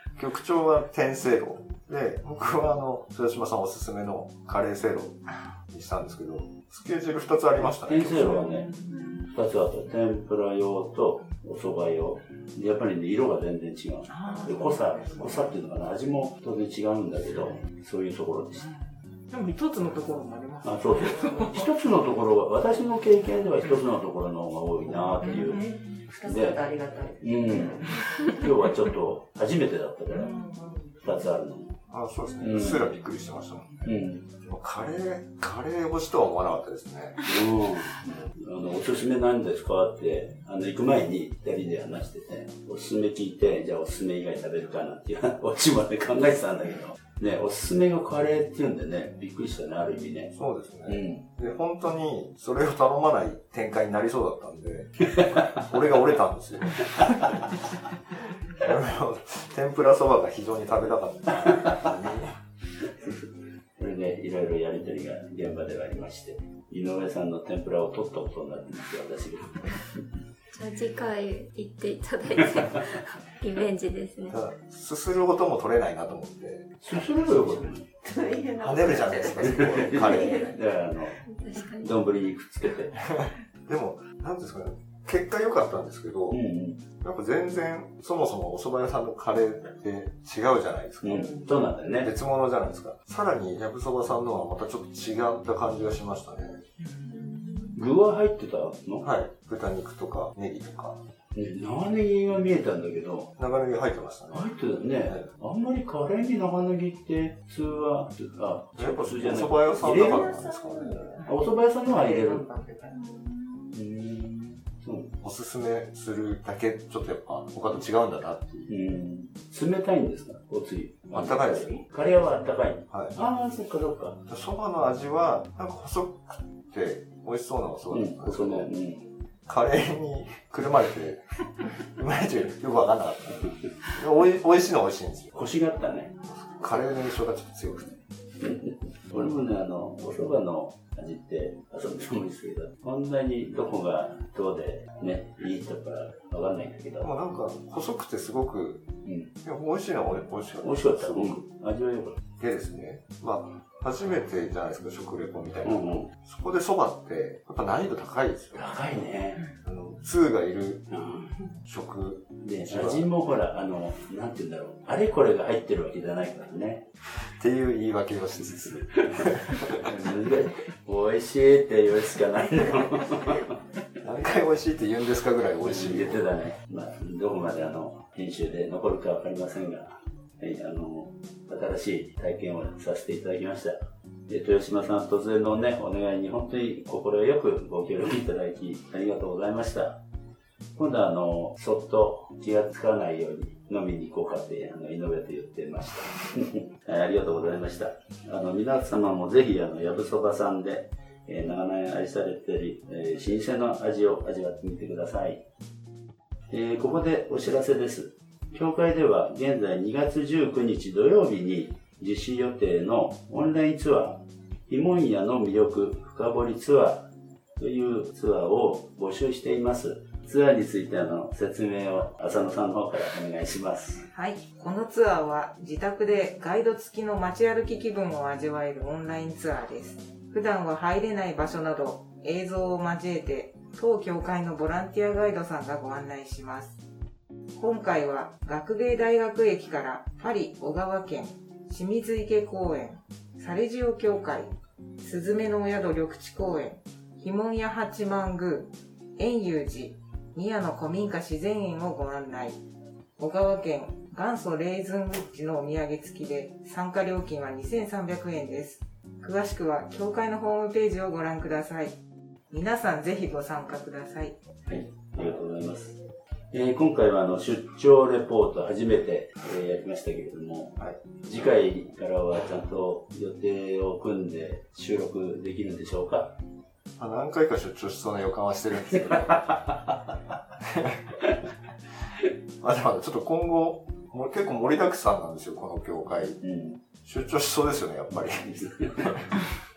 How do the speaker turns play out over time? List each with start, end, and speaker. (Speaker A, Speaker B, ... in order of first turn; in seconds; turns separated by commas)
Speaker A: 0.2-8.4, Speaker B: 7.6-8.7, Speaker C: 8.4-9.3, Speaker B: 9.3-18.7, Speaker C: 14.1-15.6, Speaker C: 17.3-17.6, Speaker C: 18.6-21.7, Speaker B: 20.6-25.6, Speaker C: 25.2-25.8, Speaker D: 25.4-28.5, Speaker B: 26.2-30.3, Speaker C: 30.1-30.4, Speaker D: 30.2-31.0, Speaker B: 31.0-31.8, Speaker A: 31.9-37.2, Speaker B: 32.4-32.9, Speaker B: 33.9-34.3, Speaker B: 37.2-50.3, Speaker A: 50.3-57.7, Speaker B: 50.9-51.3, Speaker A: 58.6-62.4, Speaker B: 63.0-63.2, Speaker B: 63.8-69.8, Speaker E: 70.5-74.4, Speaker A: 74.3-77.6, Speaker B: 76.8-77.9, Speaker D: 78.0-80.6, Speaker A: 78.6-80.4, Speaker B: 79.4-81.2, Speaker E: 81.3-81.9, Speaker B: 81.8-83.0, Speaker A: 83.0-86.4, Speaker B: 86.3-86.8, Speaker A: 87.0-91.4, Speaker B: 91.0-92.1, Speaker A: 92.0-96.6, Speaker D: 96.8-97.7, Speaker B: 97.7-99.1, Speaker A: 99.0-101.0, Speaker B: 101.3-103.3, Speaker A: 103.4-104.5, Speaker B: 104.3-110.4, Speaker A: 108.8-111.0, Speaker D: 109.8-113.8, Speaker B: 111.2-112.5, Speaker B: 113.7-115.1, Speaker A: 115.2-118.8, Speaker B: 118.7-124.2, Speaker A: 121.1-122.1, Speaker A: 122.9-123.2, Speaker A: 124.3-128.7, Speaker B: 127.9-129.1, Speaker A: 129.5-135.4, Speaker B: 135.3-136.1, Speaker A: 136.2-138.0, Speaker B: 138.4-147.1, Speaker A: 147.0-148.9, Speaker B: 149.1-149.3, Speaker A: 149.4-151.4, Speaker B: 150.6-152.2, Speaker A: 152.4-159.1, Speaker B: 155.6-156.1, Speaker B: 158.6-159.5, Speaker A: 159.6-160.9, Speaker B: 160.9-161.4, Speaker A: 161.7-163.1, Speaker B: 162.4-166.9, Speaker A: 167.4-169.8, Speaker B: 169.7-173.6, Speaker A: 174.0-176.3, Speaker B: 175.6-183.8, Speaker B: 184.3-190.0, Speaker B: 190.8-205.4, Speaker B: 206.5-224.1, Speaker C: 224.1-236.8, Speaker C: 237.6-252.6, Speaker C: 253.2-262.0, Speaker C: 262.5-264.4, Speaker B: 264.7-266.0, Speaker B: 266.5-276.4, Speaker A: 270.8-271.6, Speaker A: 277.0-279.5, Speaker A: 280.6-281.2, Speaker A: 282.6-286.4, Speaker B: 286.4-286.8, Speaker A: 287.0-289.1, Speaker B: 288.4-289.2